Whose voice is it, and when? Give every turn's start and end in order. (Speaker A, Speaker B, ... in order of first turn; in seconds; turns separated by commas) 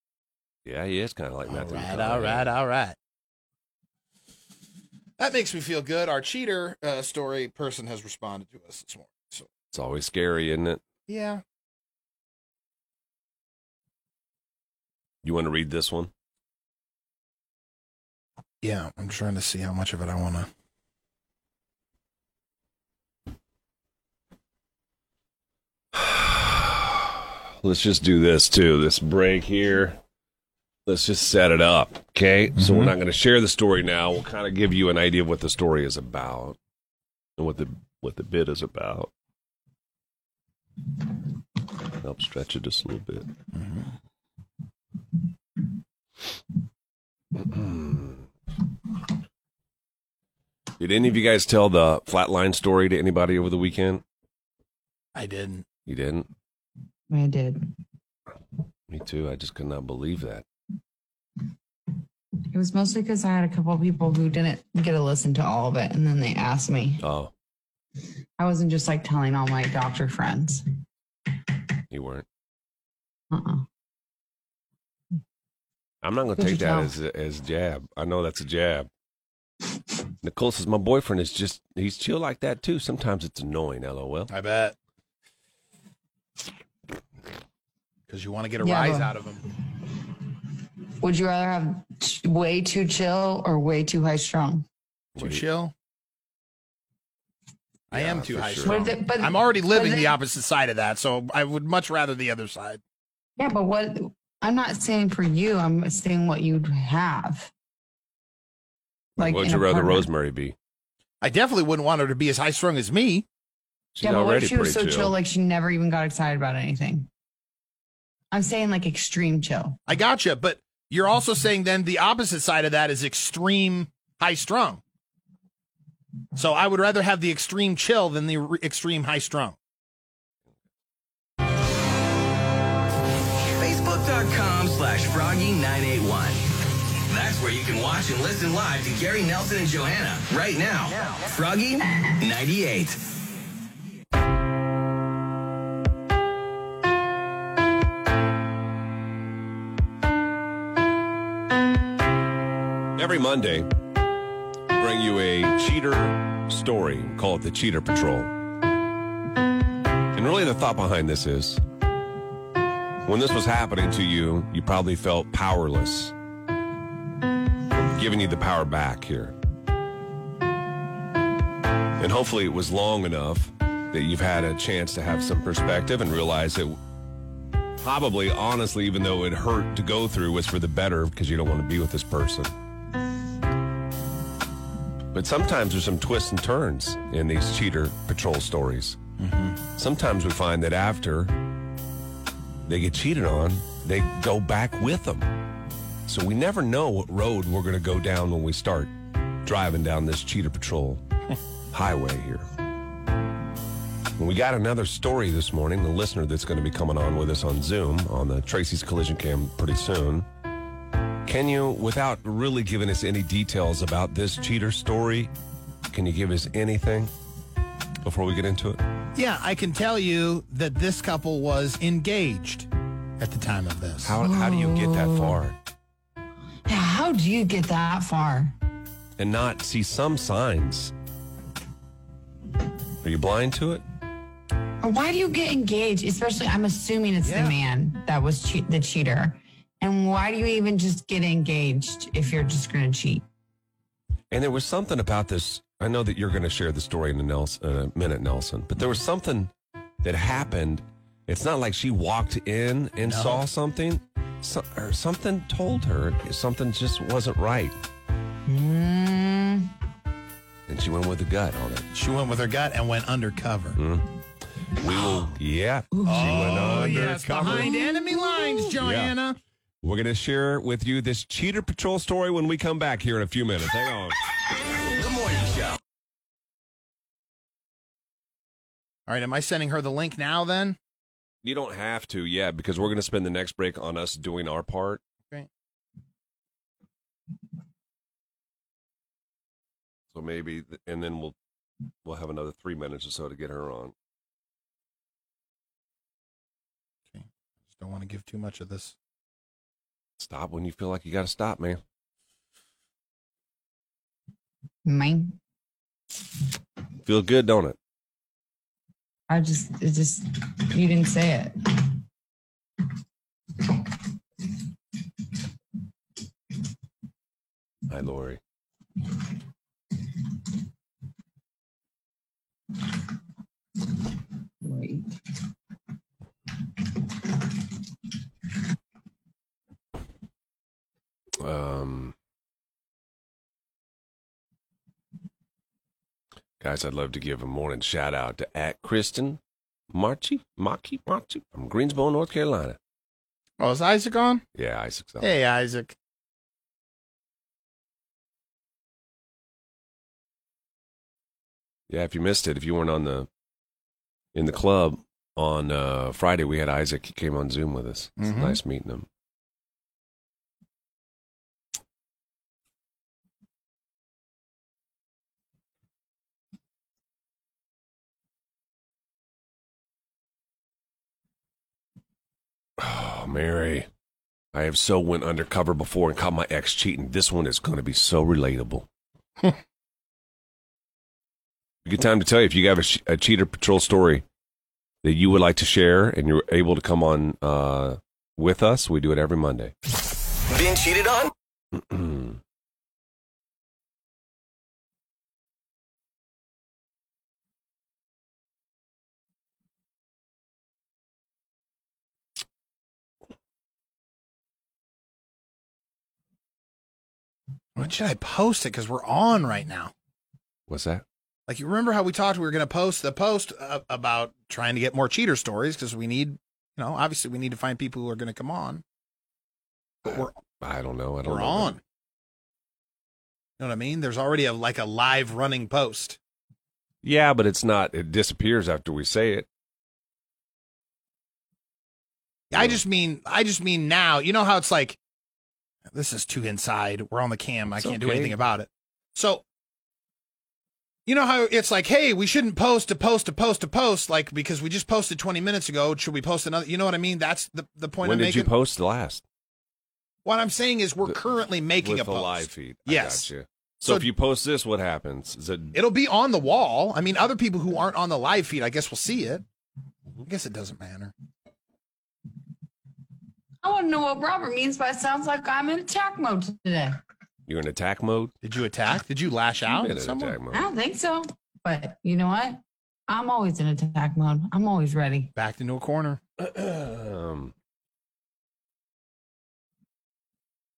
Speaker A: 0.6-2.5, Speaker B: 1.5-3.0, Speaker B: 5.2-9.5, Speaker A: 9.7-10.8, Speaker B: 11.1-11.4, Speaker A: 15.2-16.1, Speaker B: 18.6-20.5, Speaker A: 25.9-30.0, Speaker A: 30.9-36.6, Speaker B: 32.6-32.9, Speaker A: 37.4-39.1, Speaker A: 42.0-43.3, Speaker B: 43.5-43.8, Speaker A: 47.4-48.2, Speaker A: 50.8-54.0, Speaker B: 55.1-55.7, Speaker A: 55.9-56.3, Speaker C: 57.1-57.6, Speaker A: 58.9-60.4, Speaker C: 62.5-67.0, Speaker A: 67.0-67.3, Speaker C: 68.4-70.6, Speaker A: 71.9-72.2, Speaker C: 73.3-73.6, Speaker A: 76.0-78.9, Speaker C: 76.4-76.9, Speaker A: 80.2-84.3, Speaker B: 84.3-84.8, Speaker B: 88.1-89.4, Speaker C: 88.6-89.1, Speaker C: 91.0-94.7, Speaker A: 95.2-95.4, Speaker B: 95.2-95.7, Speaker B: 97.9-102.8, Speaker A: 97.9-98.8, Speaker C: 98.6-100.2, Speaker C: 103.4-107.5, Speaker A: 109.2-110.5, Speaker C: 109.2-110.1, Speaker B: 111.2-113.2, Speaker A: 113.9-115.1, Speaker C: 114.0-117.1, Speaker C: 118.3-119.8, Speaker B: 119.8-124.8, Speaker B: 126.3-129.6, Speaker D: 133.6-136.4, Speaker D: 137.1-143.0, Speaker A: 152.9-153.7, Speaker A: 154.7-158.3, Speaker A: 160.1-161.6, Speaker A: 163.0-166.1, Speaker A: 167.7-169.3, Speaker A: 172.0-176.8, Speaker A: 177.8-182.5, Speaker A: 185.1-189.0, Speaker B: 189.2-189.6, Speaker A: 189.7-191.3, Speaker A: 192.6-195.3, Speaker A: 196.1-198.9, Speaker A: 199.4-201.0, Speaker A: 201.7-202.5, Speaker A: 204.2-210.3, Speaker A: 211.2-215.3, Speaker A: 215.9-217.1, Speaker A: 218.0-218.8, Speaker B: 219.1-222.7, Speaker B: 223.2-224.2, Speaker A: 224.0-225.6, Speaker C: 224.2-225.4, Speaker C: 226.7-228.5, Speaker A: 229.2-230.9, Speaker A: 233.0-233.8, Speaker C: 234.8-243.2, Speaker B: 237.2-237.6, Speaker A: 244.3-257.7, Speaker B: 253.0-253.4, Speaker C: 258.5-259.7, Speaker A: 260.7-261.9, Speaker B: 261.9-263.8, Speaker A: 263.8-264.1, Speaker A: 264.7-267.7, Speaker C: 265.9-268.7, Speaker B: 266.0-269.4, Speaker A: 268.8-269.1, Speaker A: 269.8-274.2, Speaker D: 274.9-275.8, Speaker B: 279.1-280.8, Speaker A: 281.4-285.0, Speaker A: 290.1-291.4, Speaker A: 292.0-293.9, Speaker B: 297.1-298.9, Speaker A: 300.2-301.8, Speaker C: 304.8-305.4, Speaker A: 307.0-307.8, Speaker C: 309.3-311.5, Speaker A: 317.9-318.4, Speaker C: 324.6-325.1, Speaker A: 331.4-332.1, Speaker A: 336.6-339.4, Speaker A: 339.9-342.8, Speaker B: 343.6-344.4, Speaker A: 344.5-345.3, Speaker B: 345.2-345.9, Speaker A: 351.9-353.3, Speaker A: 354.3-359.1, Speaker B: 358.2-358.6, Speaker A: 372.8-373.9, Speaker A: 374.5-378.9, Speaker A: 381.8-384.2, Speaker A: 385.0-389.7, Speaker D: 390.5-391.3, Speaker A: 391.7-392.4, Speaker B: 407.8-409.9, Speaker A: 410.7-411.0, Speaker B: 411.5-418.8, Speaker B: 420.0-420.4, Speaker A: 420.1-421.7, Speaker B: 421.2-421.8, Speaker B: 423.6-426.2, Speaker A: 427.0-429.5, Speaker B: 432.5-435.0, Speaker A: 432.5-432.8, Speaker B: 435.9-439.4, Speaker A: 437.7-438.4, Speaker B: 441.1-448.5, Speaker A: 448.0-449.2, Speaker B: 450.2-453.3, Speaker A: 451.8-455.8, Speaker B: 455.7-459.4, Speaker B: 460.2-461.1, Speaker C: 463.6-467.0, Speaker A: 467.5-468.3, Speaker B: 468.4-470.4, Speaker A: 469.7-470.6, Speaker C: 470.5-475.3, Speaker B: 475.3-476.2, Speaker A: 476.4-477.5